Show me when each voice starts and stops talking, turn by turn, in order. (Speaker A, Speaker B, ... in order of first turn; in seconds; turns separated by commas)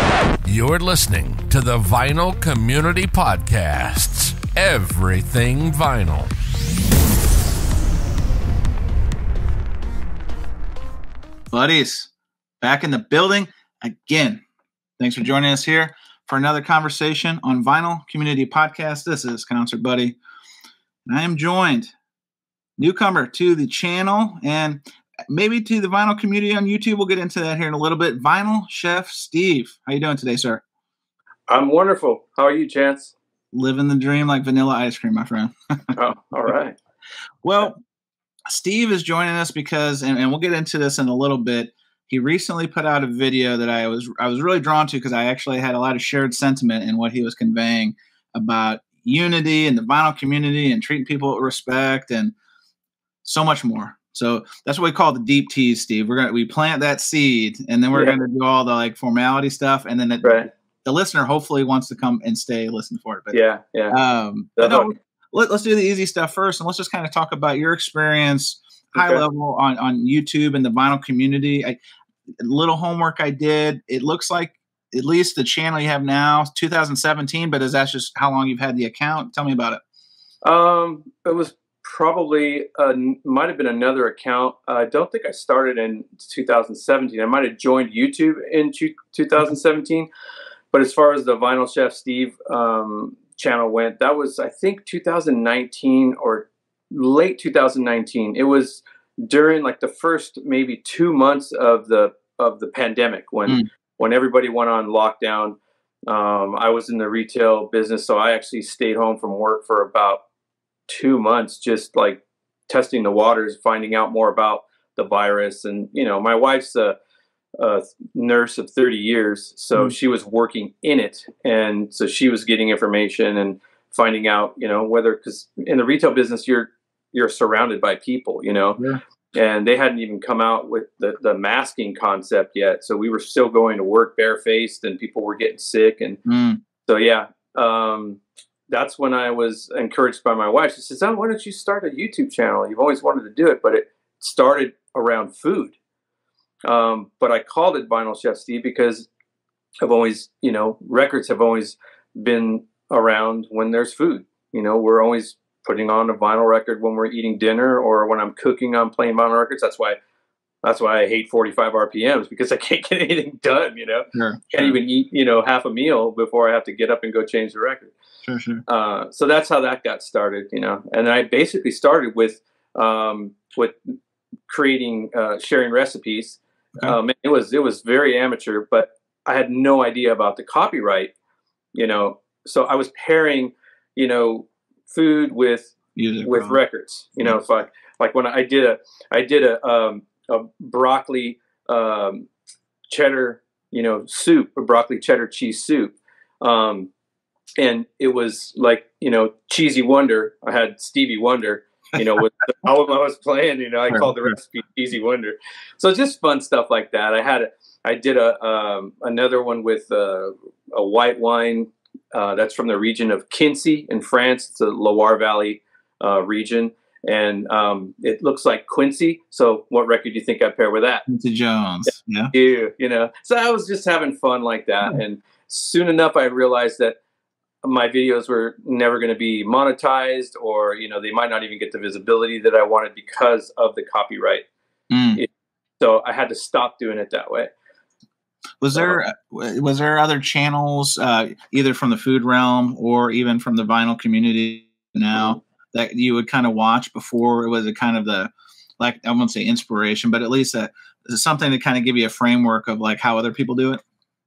Speaker A: 0.4-6.3, Speaker B: 11.5-12.1, Speaker B: 12.6-14.4, Speaker B: 15.0-20.2, Speaker B: 21.1-21.9, Speaker B: 22.8-30.6, Speaker C: 31.5-33.1, Speaker B: 33.5-35.9, Speaker C: 36.0-36.8, Speaker B: 37.4-37.8, Speaker B: 38.5-52.3, Speaker B: 53.2-63.4, Speaker C: 60.2-60.5, Speaker C: 63.3-64.0, Speaker B: 63.9-71.8, Speaker C: 64.6-64.9, Speaker C: 69.0-69.2, Speaker B: 72.4-79.8, Speaker C: 80.4-90.1, Speaker C: 90.7-110.2, Speaker C: 110.9-117.0, Speaker C: 117.6-128.8, Speaker C: 129.3-136.2, Speaker B: 136.2-136.6, Speaker C: 136.8-145.8, Speaker C: 146.6-149.1, Speaker C: 149.8-160.0, Speaker C: 160.6-167.9, Speaker B: 164.1-164.8, Speaker B: 168.2-168.7, Speaker C: 168.7-173.8, Speaker C: 174.5-181.1, Speaker C: 181.7-185.7, Speaker B: 186.0-186.6, Speaker C: 186.2-192.3, Speaker C: 192.9-196.9, Speaker C: 197.6-221.1, Speaker B: 203.9-204.3, Speaker B: 221.1-222.3, Speaker C: 222.3-227.0, Speaker C: 227.6-234.4, Speaker B: 234.9-235.2, Speaker C: 235.8-237.5, Speaker B: 238.6-253.8